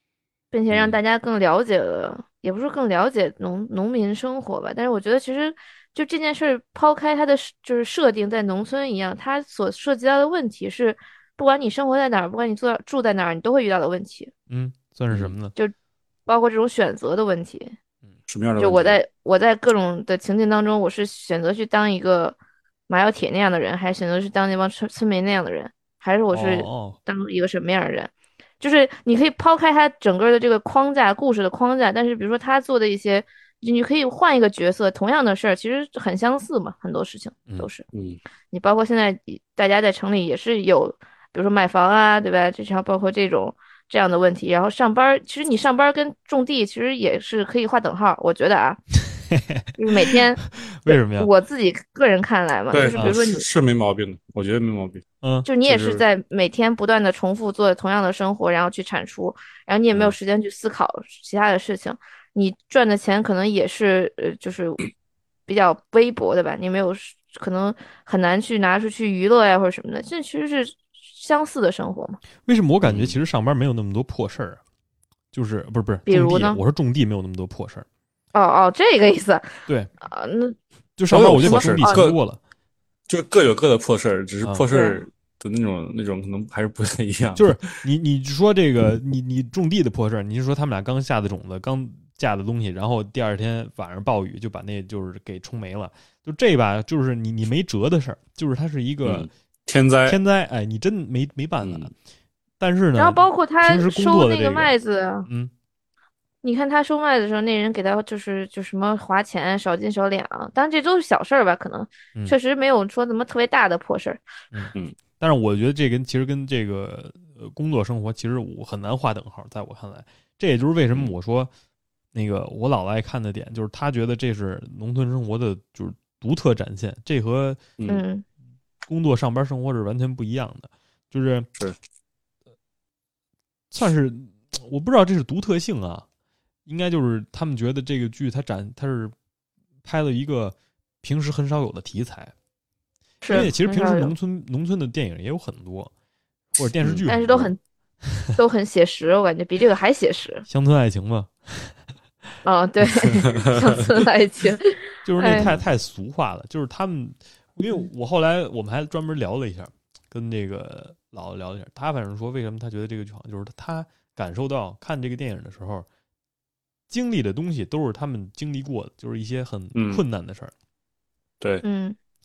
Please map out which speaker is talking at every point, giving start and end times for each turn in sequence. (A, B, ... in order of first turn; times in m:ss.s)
0:00.5-0:14.3 A
0:00.7-0:01.0 B
0:14.5-0:15.5 C
0:16.3-0:17.8 A
0:18.3-0:19.0 B
0:18.6-0:22.4 A
0:22.9-0:37.8 A
0:26.3-0:27.0 C
0:37.9-0:38.2 B
0:38.5-0:48.8 A
0:49.1-0:51.3 C
0:49.8-0:53.4 A
0:52.7-0:55.0 B
0:52.9-0:53.2 C
0:55.2-0:55.5 C
0:55.4-1:04.8 A
0:55.6-0:56.0 B
1:05.5-1:12.2 A
1:12.4-1:14.6 C
1:12.8-1:13.2 B
1:15.3-1:17.8 C
1:16.0-1:16.6 A
1:18.3-1:20.6 A
1:21.0-1:22.4 C
1:21.1-1:22.2 B
1:21.4-1:22.0 A
1:23.1-1:27.6 B
1:24.7-1:25.0 A
1:27.4-1:39.3 C
1:39.0-1:40.2 B
1:40.1-1:41.9 C
1:41.6-1:41.9 B
1:42.6-1:44.7 C
1:43.0-1:45.3 A
1:45.3-1:45.5 C
1:46.4-1:54.2 A
1:54.5-2:01.5 C
2:02.1-2:07.6 C
2:07.8-2:08.0 B
2:07.9-2:08.2 A
2:08.8-2:11.5 C
2:13.7-2:16.0 C
2:16.6-2:19.1 C
2:19.8-2:22.3 C
2:23.2-2:24.1 A
2:23.3-2:25.9 C
2:26.5-2:27.5 C
2:27.0-2:27.6 A
2:28.1-2:28.4 C
2:28.4-2:30.4 A
2:30.5-2:31.7 C
2:32.4-2:35.5 A
2:35.0-2:45.9 C
2:46.9-2:50.5 C
2:49.7-2:50.0 B
2:51.6-2:52.0 A